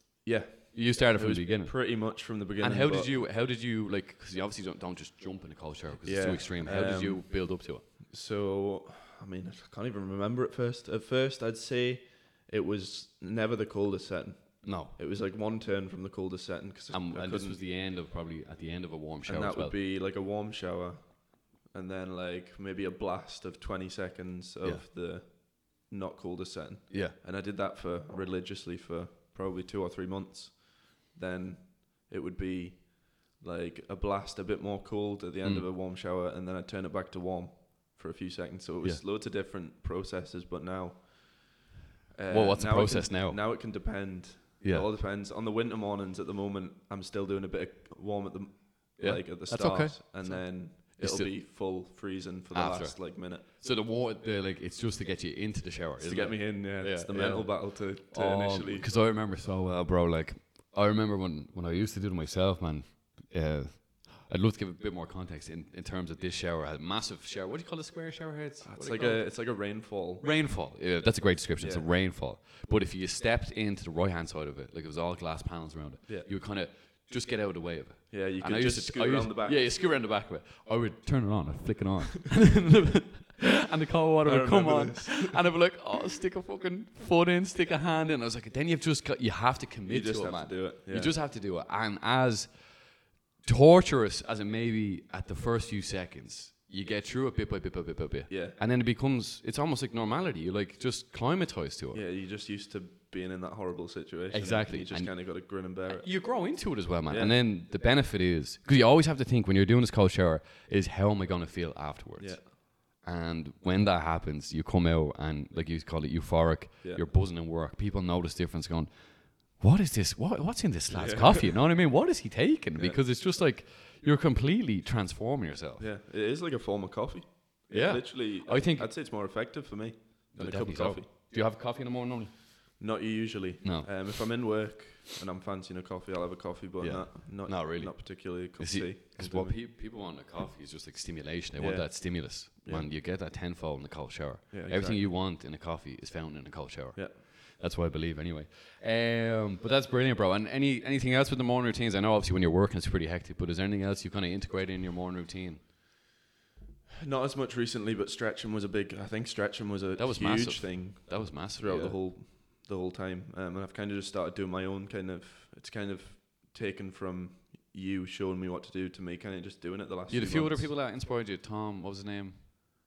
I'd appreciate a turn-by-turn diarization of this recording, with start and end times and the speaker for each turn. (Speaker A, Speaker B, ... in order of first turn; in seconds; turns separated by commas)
Speaker A: 0.2-3.2, Speaker B: 0.7-7.8, Speaker A: 6.0-17.6, Speaker B: 14.6-14.9, Speaker B: 16.9-19.8, Speaker A: 19.2-53.5, Speaker B: 26.9-27.2, Speaker B: 35.4-35.7, Speaker B: 42.3-44.0, Speaker B: 44.6-44.9, Speaker B: 49.0-52.0, Speaker B: 52.5-102.0, Speaker A: 56.0-58.9, Speaker A: 68.6-70.4, Speaker A: 71.6-71.9, Speaker A: 76.1-76.3, Speaker A: 78.1-79.7, Speaker A: 84.2-85.5, Speaker A: 89.9-91.2, Speaker A: 98.3-98.6, Speaker A: 101.9-107.4, Speaker B: 104.3-125.9, Speaker A: 112.2-112.5, Speaker A: 120.9-121.6, Speaker A: 122.8-123.0, Speaker A: 125.8-131.1, Speaker B: 127.7-128.9, Speaker B: 130.3-132.8, Speaker A: 132.8-139.6, Speaker B: 133.6-134.3, Speaker B: 136.8-155.7, Speaker A: 141.6-142.9, Speaker A: 144.5-145.1, Speaker A: 157.0-170.7, Speaker B: 160.0-162.0, Speaker B: 170.1-172.4